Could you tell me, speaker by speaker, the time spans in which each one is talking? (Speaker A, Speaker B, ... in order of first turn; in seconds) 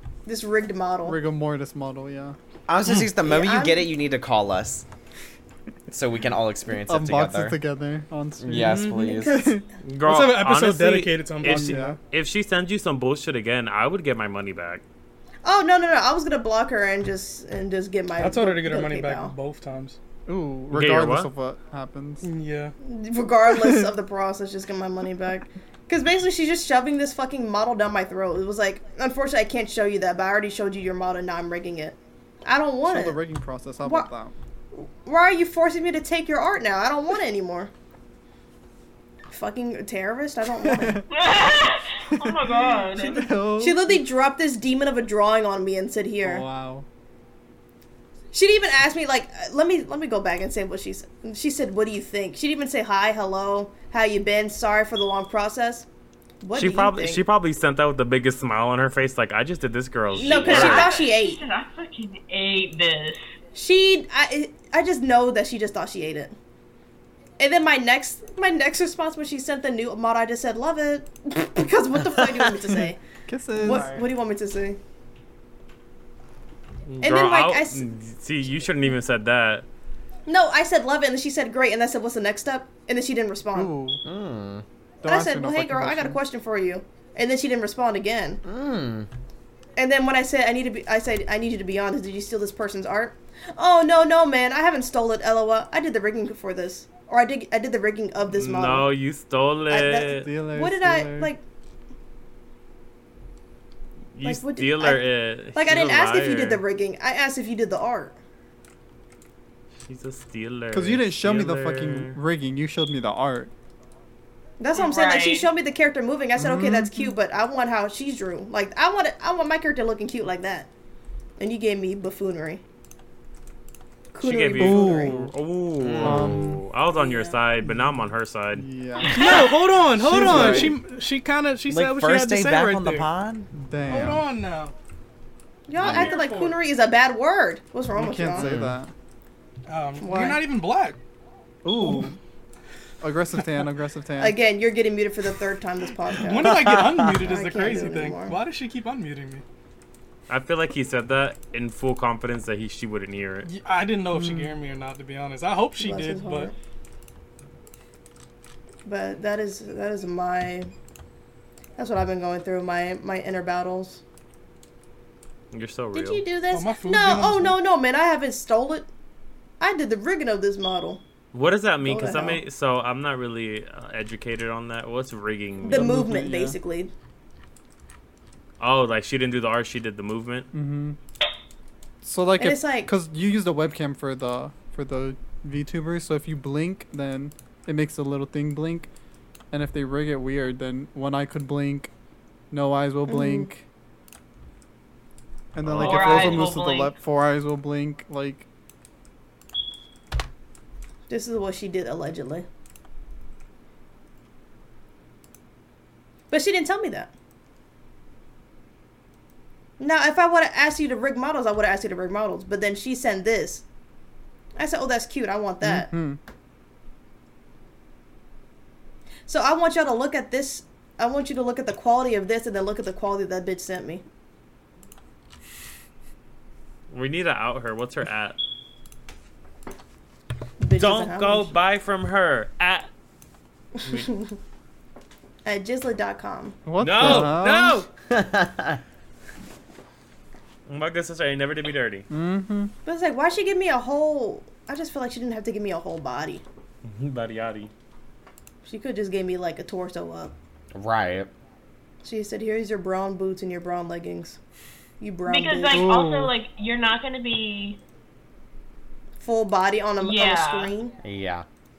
Speaker A: 0.2-1.2, 3.2-3.9, 8.9-9.6, 15.4-19.3, 22.8-33.2, 34.7-37.7, 39.3-41.0, 43.6-46.4, 48.3-55.9, 56.4-57.2, 60.2-61.4, 63.5-66.3, 67.4-73.0, 73.5-74.8, 77.0-77.8, 80.3-83.8, 85.0-88.4, 89.8-98.9, 99.7-101.4, 104.2-105.0, 105.5-108.2, 114.6-120.7, 121.4-122.6, 124.1-125.2, 127.0-127.4, 135.7-138.5, 140.0-140.4, 144.2-148.4, 155.8-156.5, 158.8-160.7, 161.8-164.0, 165.9-168.9, 169.6-171.0, 171.8-172.4, 175.6-176.9, 182.4-182.9, 193.1-193.5, 201.1-202.4, 206.3-207.1, 209.8-213.6, 214.6-215.9, 219.3-224.0, 230.6-231.5, 233.9-234.3, 235.4-236.6, 242.8-246.4, 248.6-250.3, 252.0-254.4, 255.0-255.9, 259.2-260.9
Speaker B: 1.0-2.4, 6.7-9.6, 11.4-12.0, 20.3-22.3, 23.5-23.9, 32.9-34.3, 40.6-41.0, 42.1-44.0, 46.2-46.9, 73.3-74.0, 83.5-84.0, 85.0-86.2, 100.1-101.3, 110.7-113.5, 116.4-117.1, 124.6-125.3, 126.0-126.6, 127.6-128.0, 128.5-129.3, 130.0-130.7, 133.5-134.2, 137.9-138.9, 141.6-142.1, 143.0-144.4, 154.1-154.5, 175.7-176.6, 180.5-181.0, 182.0-188.9, 189.5-191.9, 192.5-193.6, 195.5-198.5, 215.6-216.2, 236.7-237.8, 242.1-242.7, 255.7-256.3
Speaker C: 2.7-4.9, 5.9-7.6, 8.4-9.4, 84.0-84.6, 88.4-89.1, 125.8-126.4, 130.2-130.7, 131.7-133.5, 138.4-138.8, 146.4-147.2, 238.1-238.8, 250.7-251.3, 261.0-261.4
Speaker D: 9.8-14.8, 20.7-21.3, 56.5-60.9, 76.9-79.7, 98.3-100.3, 104.1-106.6, 109.8-112.2, 124.2-128.7, 150.3-153.5, 165.5-166.2, 171.3-176.0, 178.6-180.5, 195.7-196.3, 226.9-228.4, 230.8-232.9, 233.8-234.1, 236.8-237.9, 240.7-242.1, 246.8-247.7
Speaker E: 10.0-11.9, 18.2-20.0, 22.2-22.7, 129.1-133.1, 133.9-134.7, 135.8-136.5, 139.7-141.0, 146.2-149.4, 153.4-156.5, 166.5-167.6
Speaker F: 41.1-43.2, 60.2-63.2, 114.7-115.5, 129.1-129.4, 195.7-196.9, 255.2-257.8, 260.0-260.7